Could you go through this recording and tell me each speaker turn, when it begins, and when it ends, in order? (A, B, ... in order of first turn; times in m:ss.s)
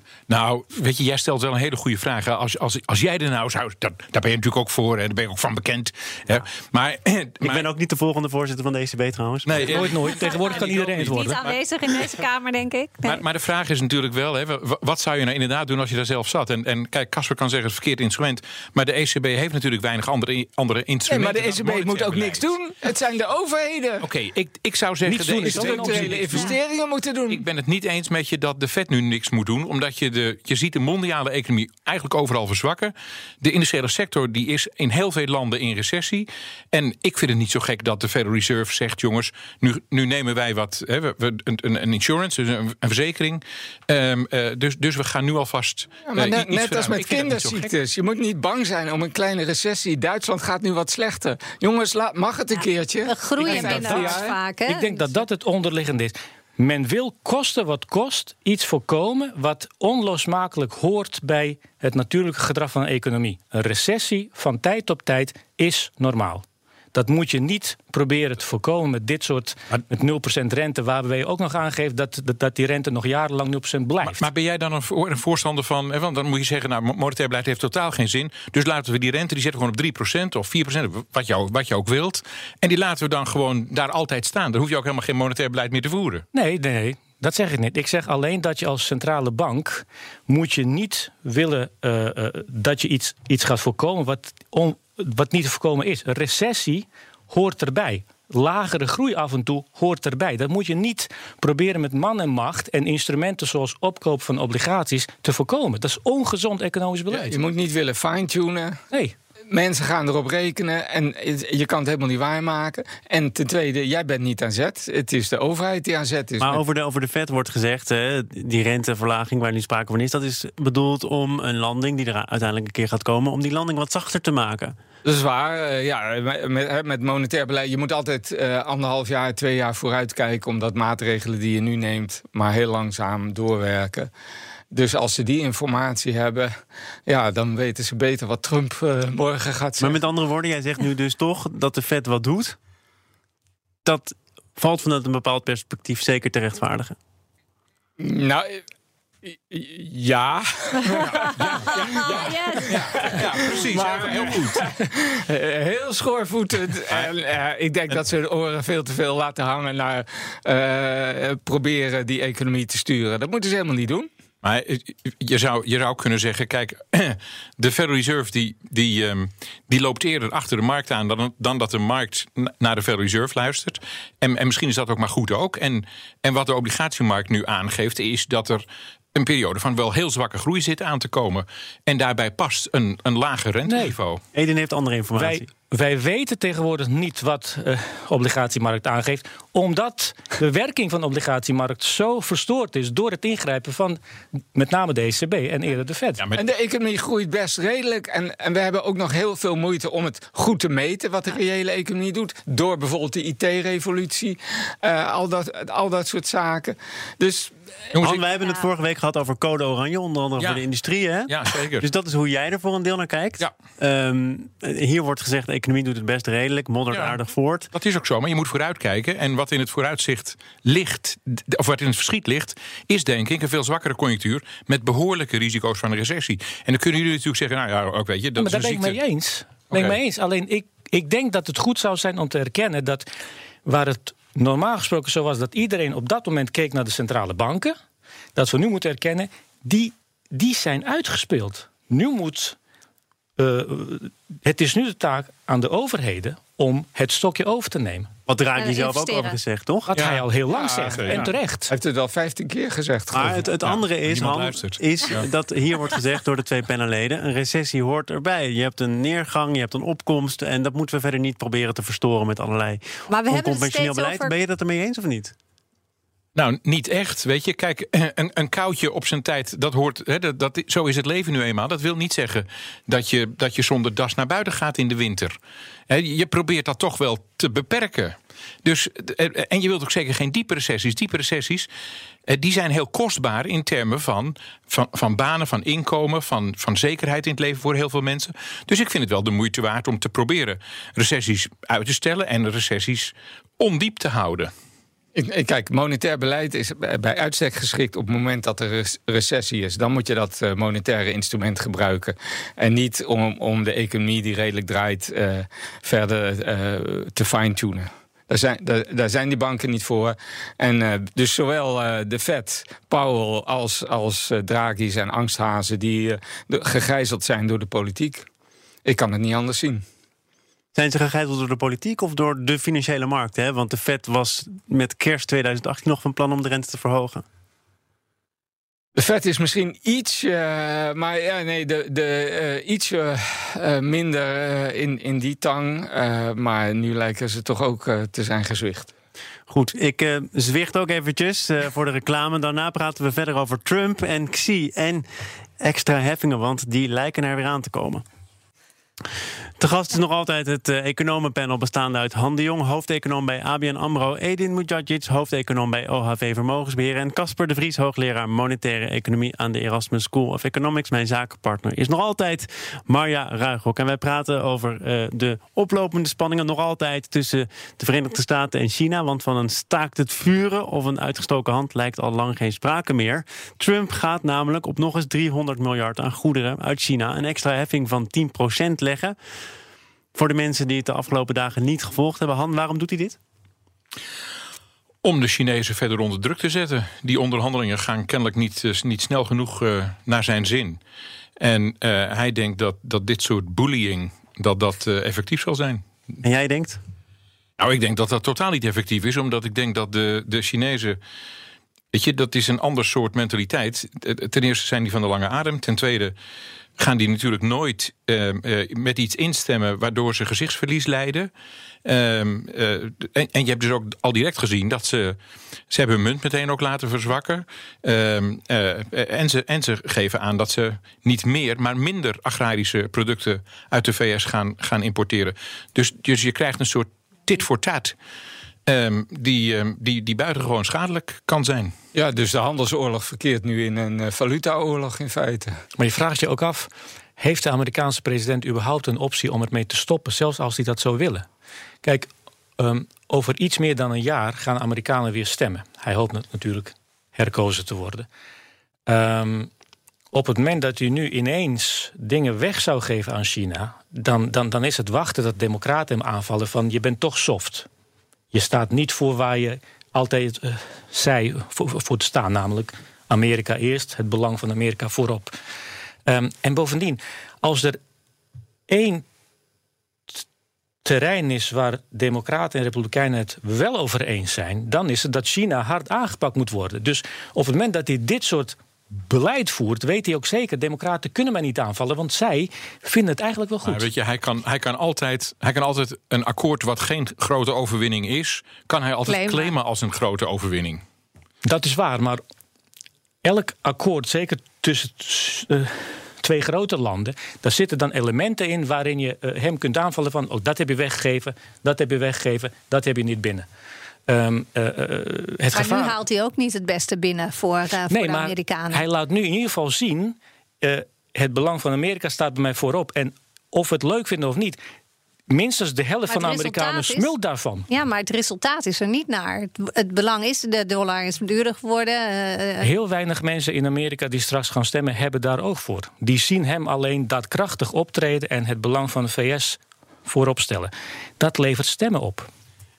0:00.3-0:07.6 A
0:07.4-0:10.2 B
0:09.4-0:12.0 A
0:09.6-0:11.4 C
0:10.2-0:13.2 D
0:13.0-0:22.5 A
0:21.1-0:24.0 E
0:24.0-0:26.5 A
0:25.0-0:26.5 C
0:25.4-0:27.4 E
0:27.3-0:47.7 A
0:46.0-0:54.4 E
0:53.0-0:55.0 D
0:53.4-1:14.3 C
1:14.0-1:26.2 A
1:26.3-1:47.4 C
1:47.2-1:48.8 E
1:49.5-1:56.6 E
1:56.4-2:04.8 B
2:05.0-2:14.1 E
2:14.7-2:16.5 E
2:17.1-2:20.0 E
2:19.8-2:22.6 B
2:23.8-2:27.0 B
2:28.0-2:28.6 E
2:29.2-2:44.1 E
2:31.1-2:34.7 A
2:32.1-2:32.7 D
2:44.4-3:04.2 A
3:03.6-3:03.9 C
3:04.3-3:05.5 B
3:05.1-3:14.0 C
3:14.5-3:16.2 C
3:16.4-3:27.9 E
3:27.9-3:28.2 A
3:28.0-3:37.7 B
3:30.4-3:30.6 A
3:31.3-3:31.9 A
3:36.9-3:37.2 A
3:37.7-3:49.0 A
3:48.4-3:53.1 C
3:49.7-3:50.0 A
3:53.6-3:57.8 C
3:58.4-4:02.6 C
4:03.4-4:08.1 C
4:08.3-4:09.9 B
4:08.5-4:09.4 D
4:09.9-4:11.7 C
4:10.0-4:10.2 A
4:10.5-4:13.4 E
4:10.9-4:11.3 A
4:13.1-4:25.3 B
4:13.4-4:15.2 A
4:23.1-4:24.4 D
4:26.3-4:35.4 A
4:35.9-4:41.7 A
4:42.3-4:54.5 A
4:55.1-5:18.2 E
5:18.8-5:19.8 E
5:20.7-5:27.2 B
5:28.9-5:38.9 E
5:39.5-5:45.0 B
5:45.6-5:48.0 B
5:49.6-6:19.2 B
6:20.1-6:23.2 B
6:25.0-6:30.8 A
6:31.4-6:35.8 A
6:36.2-6:36.8 B
6:37.6-6:41.0 A
6:41.9-6:46.1 A
6:46.8-6:51.3 A
6:51.8-6:55.2 A
6:55.7-7:07.9 A
7:08.6-7:11.7 A
7:11.9-7:15.6 E
7:15.8-7:21.3 C
7:21.8-7:28.1 C
7:28.9-7:29.5 C
7:30.1-7:37.7 C
7:38.3-7:45.4 C
7:46.0-7:47.8 C
7:48.7-7:49.0 C
7:50.8-8:03.9 C
8:03.6-8:10.8 A
8:09.1-8:09.5 D
8:11.4-8:12.2 C
8:13.2-8:23.4 C
8:24.1-8:26.0 C
8:25.5-8:28.8 D
8:27.9-8:34.6 C
8:35.3-8:37.6 C
8:36.1-8:37.1 D
8:37.7-8:42.7 D
8:42.6-8:52.3 C